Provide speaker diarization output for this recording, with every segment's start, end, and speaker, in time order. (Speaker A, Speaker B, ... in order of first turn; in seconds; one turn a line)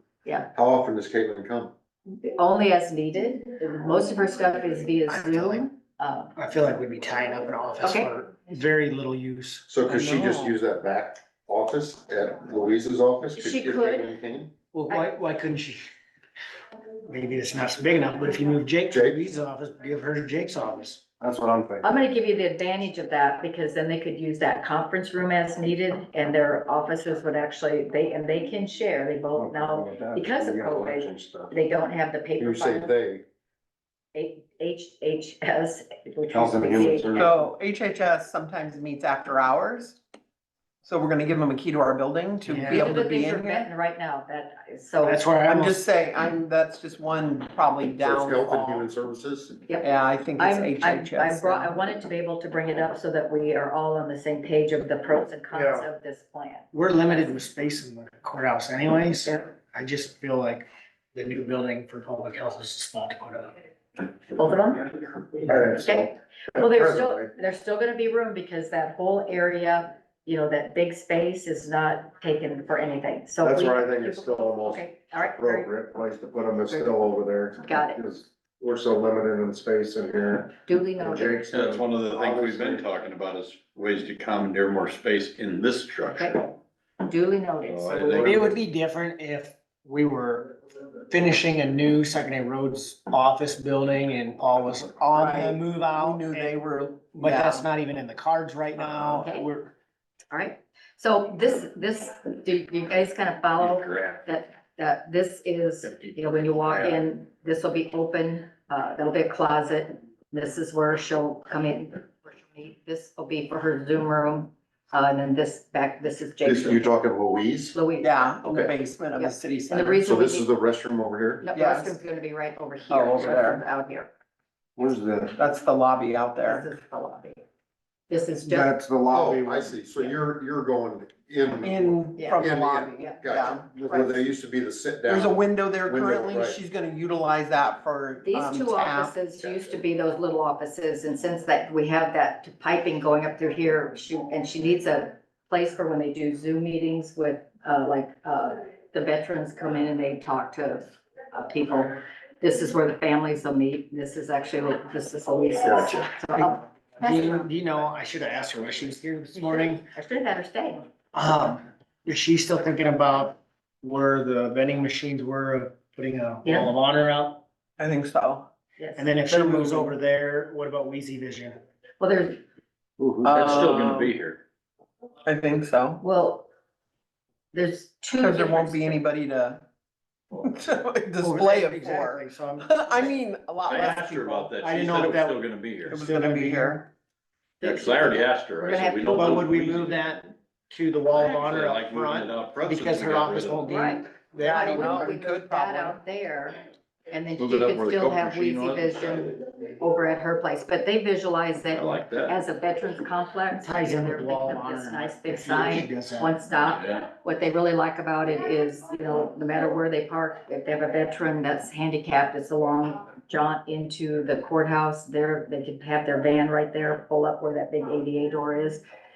Speaker A: 0.2-0.5
Speaker B: 0.6-1.7
Speaker A: 2.1-6.3
Speaker C: 5.1-5.6
Speaker C: 6.4-10.3
Speaker A: 7.8-8.1
Speaker B: 9.7-14.5
Speaker A: 13.4-14.1
Speaker C: 14.7-15.8
Speaker C: 17.1-21.1
Speaker B: 18.9-19.2
Speaker D: 21.2-21.8
Speaker A: 21.8-32.9
Speaker D: 29.4-31.5
Speaker B: 32.4-33.2
Speaker A: 34.1-37.3
Speaker D: 36.4-37.3
Speaker E: 37.1-40.0
Speaker E: 40.8-43.7
Speaker C: 42.5-42.9
Speaker A: 42.7-45.3
Speaker C: 45.0-45.8
Speaker E: 45.5-48.9
Speaker B: 48.0-49.6
Speaker A: 49.7-57.4
Speaker E: 49.8-51.8
Speaker D: 55.5-55.8
Speaker C: 56.7-63.6
Speaker A: 64.4-75.7
Speaker D: 65.5-67.3
Speaker D: 73.4-74.8
Speaker D: 75.3-82.8
Speaker A: 76.7-78.0
Speaker A: 80.7-81.4
Speaker F: 81.5-86.4
Speaker A: 86.0-88.6
Speaker F: 87.7-88.3
Speaker C: 88.2-90.6
Speaker C: 91.1-96.6
Speaker E: 95.2-97.7
Speaker C: 97.2-99.7
Speaker A: 98.9-99.5
Speaker A: 100.3-116.9
Speaker F: 103.6-104.2
Speaker F: 105.8-107.0
Speaker B: 116.4-117.8
Speaker A: 117.7-118.4
Speaker E: 118.0-120.1
Speaker B: 118.5-118.7
Speaker A: 119.2-120.5
Speaker B: 120.0-121.5
Speaker A: 121.4-124.1
Speaker E: 121.5-122.0
Speaker E: 122.9-123.6
Speaker D: 124.8-125.3
Speaker E: 125.2-126.7
Speaker A: 126.4-127.4
Speaker A: 128.1-128.7
Speaker D: 128.5-129.7
Speaker B: 129.1-136.6
Speaker E: 131.6-133.7
Speaker A: 132.2-132.5
Speaker A: 133.0-134.1
Speaker E: 135.1-139.2
Speaker A: 138.2-157.5
Speaker B: 155.6-156.1
Speaker C: 156.3-159.8
Speaker A: 159.3-160.9
Speaker C: 161.1-167.4
Speaker A: 166.4-166.7
Speaker E: 167.8-168.5
Speaker A: 168.8-169.2
Speaker C: 169.0-171.6
Speaker E: 169.3-170.0
Speaker A: 172.0-172.4
Speaker D: 173.0-173.3
Speaker E: 173.2-174.1
Speaker F: 173.3-174.4
Speaker E: 175.2-176.0
Speaker A: 176.0-176.5
Speaker A: 177.5-179.0
Speaker E: 178.2-179.6
Speaker E: 180.4-184.5
Speaker C: 181.2-183.1
Speaker F: 183.7-186.0
Speaker C: 184.6-186.8
Speaker E: 185.9-186.9
Speaker A: 187.6-189.6
Speaker F: 187.6-190.0
Speaker C: 189.2-195.1
Speaker F: 191.1-193.7
Speaker A: 193.7-196.6
Speaker E: 194.4-196.0
Speaker A: 197.1-218.8
Speaker F: 197.4-199.4
Speaker F: 201.7-202.4
Speaker C: 203.6-206.3
Speaker F: 206.8-207.0